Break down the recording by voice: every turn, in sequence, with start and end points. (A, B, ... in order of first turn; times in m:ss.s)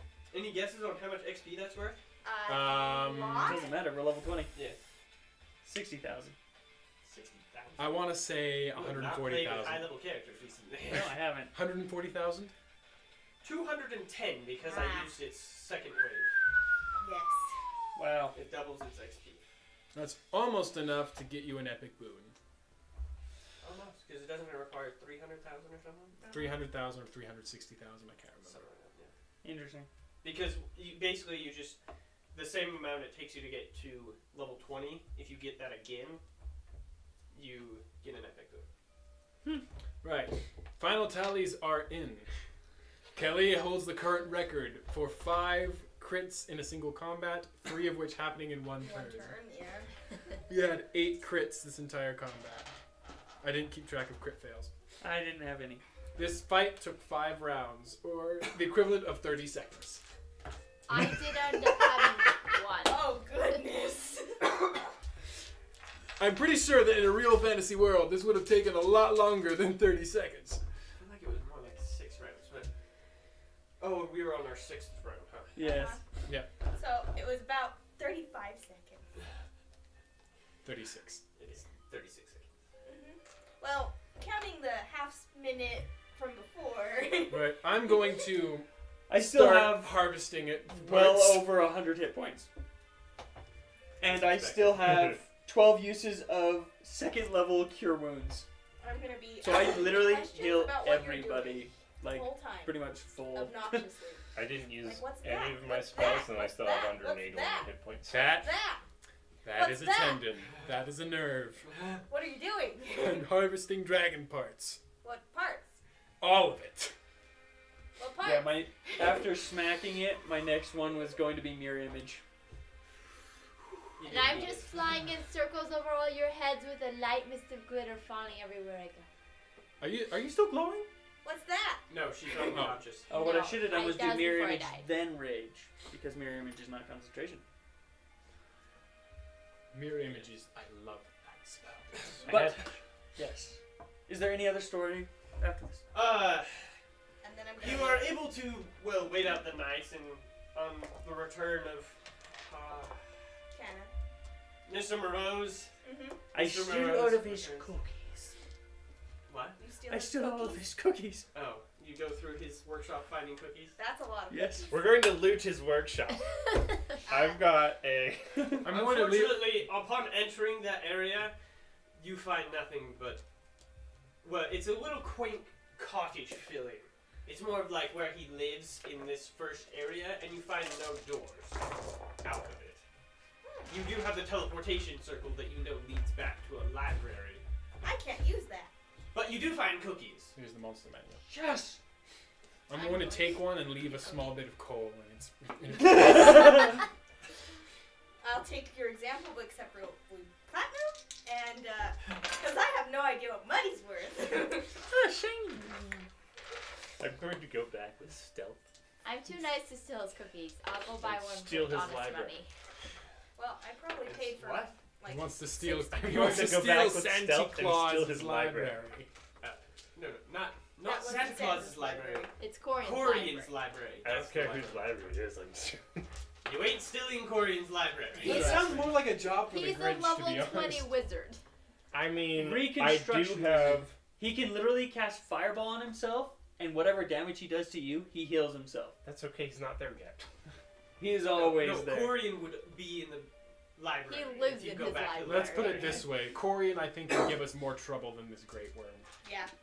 0:00.3-0:02.0 A
0:02.2-0:03.8 B
0:02.5-0:03.6 C
0:03.4-0:04.5 D
0:05.6-0:06.4 D
0:07.0-0:08.2 A
0:07.8-0:09.9 C
0:08.7-0:11.2 A
0:10.8-0:11.5 D
0:11.5-0:12.5 C
0:13.4-0:16.3 A
0:14.6-0:15.1 B
0:17.0-0:17.5 B
0:18.0-0:18.4 D
0:18.3-0:19.4 A
0:19.9-0:22.3 C
0:23.6-0:26.2 A
0:26.2-0:26.6 B
0:26.3-0:28.6 C
0:28.4-0:29.1 A
0:29.4-0:29.9 D
0:30.2-0:31.8 A
0:32.3-0:36.2 A
0:37.3-0:38.6 A
0:40.0-0:42.3 C
0:43.1-0:49.4 C
0:48.7-0:49.9 B
0:50.5-0:52.7 C
0:53.4-0:54.7 C
0:55.0-0:55.8 D
0:56.1-1:00.0 C
1:00.9-1:03.0 E
1:02.8-1:04.6 B
1:06.2-1:10.6 C
1:11.0-1:12.7 A
1:13.8-1:15.6 A
1:15.5-1:16.0 D
1:15.6-1:16.0 B
1:16.7-1:19.0 B
1:20.6-1:21.2 C
1:21.4-1:22.5 A
1:22.8-1:28.1 B
1:27.3-1:28.7 C
1:29.1-1:30.1 D
1:29.2-1:31.5 C
1:30.7-1:32.5 D
1:34.0-1:38.4 D
1:34.1-1:34.9 A
1:38.8-1:47.7 B
1:39.4-1:43.9 D
1:44.3-1:48.4 F
1:48.1-1:48.5 C
1:48.3-1:48.8 B
1:49.4-1:51.7 C
1:49.5-1:50.3 B
1:52.1-1:53.3 B
1:52.9-1:54.8 C
1:55.0-1:55.8 B
1:56.2-1:56.9 C
1:58.0-1:59.0 B
1:58.2-2:02.2 D
2:04.0-2:04.8 A
2:04.0-2:09.1 E
2:09.8-2:10.9 C
2:11.2-2:12.6 B
2:11.9-2:13.1 A
2:12.5-2:12.8 C
2:13.1-2:14.9 E
2:13.1-2:17.4 D
2:19.7-2:22.6 C
2:22.2-2:22.6 D
2:22.3-2:22.6 F
2:23.2-2:25.8 D
2:25.9-2:26.7 A
2:27.2-2:28.2 B
2:27.6-2:33.0 A
2:33.5-2:33.9 B
2:34.6-2:35.7 A
2:35.8-2:36.2 B
2:36.3-2:37.7 A
2:36.3-2:38.4 D
2:39.3-2:39.6 A
2:39.6-2:40.7 B
2:39.9-2:41.3 D
2:41.3-2:43.8 A
2:43.8-2:44.8 B
2:44.3-2:44.7 D
2:44.7-2:46.3 F
2:47.1-2:47.4 B
2:47.1-2:48.6 F
2:48.6-2:49.7 C
2:48.6-2:51.3 A
2:52.0-2:53.2 A
2:54.2-3:01.6 A
3:02.2-3:02.8 A
3:03.4-3:03.7 B
3:03.7-3:07.4 A
3:07.8-3:08.7 B
3:09.1-3:10.3 A
3:10.3-3:11.2 C
3:11.3-3:11.8 D
3:12.7-3:16.6 C
3:12.7-3:14.4 B
3:16.1-3:16.6 D
3:18.2-3:24.8 B
3:24.9-3:26.1 D
3:27.0-3:28.6 F
3:29.0-3:32.5 E
3:31.0-3:32.4 F
3:33.4-3:36.2 B
3:34.0-3:34.7 A
3:35.0-3:39.1 C
3:36.0-3:38.8 F
3:39.4-3:45.1 A
3:40.8-3:42.4 B
3:42.4-3:43.5 E
3:44.0-3:46.1 F
3:46.4-3:48.9 A
3:48.2-3:48.7 D
3:48.2-3:50.9 C
3:48.2-3:51.4 E
3:51.9-3:53.9 F
3:52.3-3:59.0 D
3:59.0-4:00.2 F
4:01.0-4:02.2 D
4:01.3-4:06.0 A
4:04.1-4:06.0 E
4:05.2-4:09.1 C
4:09.2-4:09.5 B